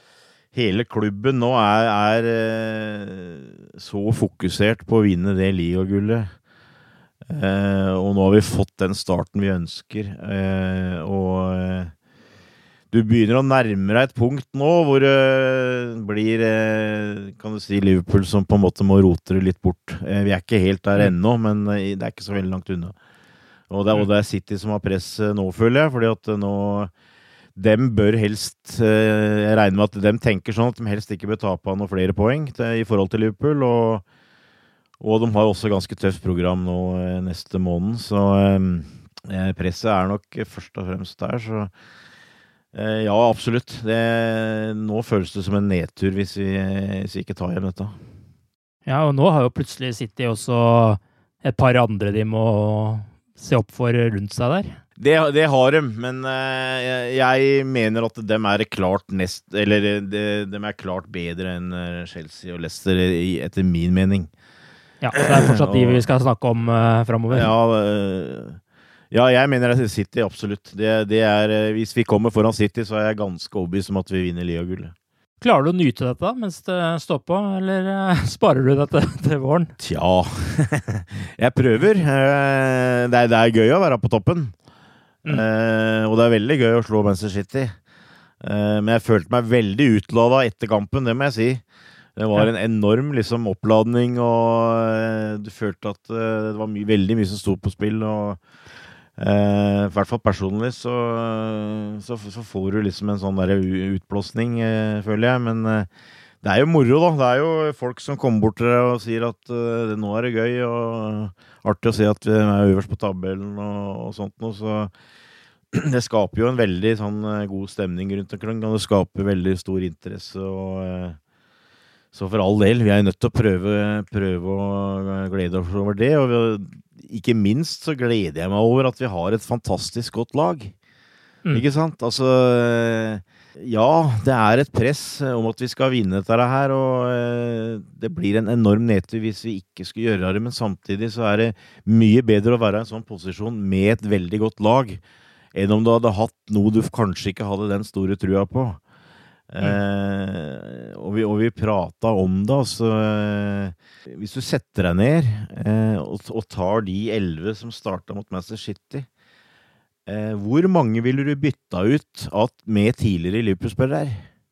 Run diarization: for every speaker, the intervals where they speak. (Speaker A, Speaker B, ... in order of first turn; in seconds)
Speaker A: 0.5-6.3, 7.3-11.9, 12.9-23.0, 23.7-26.9, 27.6-34.0, 35.0-41.7, 42.7-48.0, 55.0-64.3, 65.1-66.0, 67.3-68.6, 69.1-74.9, 79.8-84.5, 85.2-87.8, 88.4-91.6, 92.2-98.4, 99.2-105.9, 106.4-114.9, 115.7-121.2, 122.1-130.7, 131.5-145.0, 145.5-148.8, 149.5-159.1, 160.1-164.3
Speaker B: 48.9-54.8, 65.0-67.5, 75.4-79.7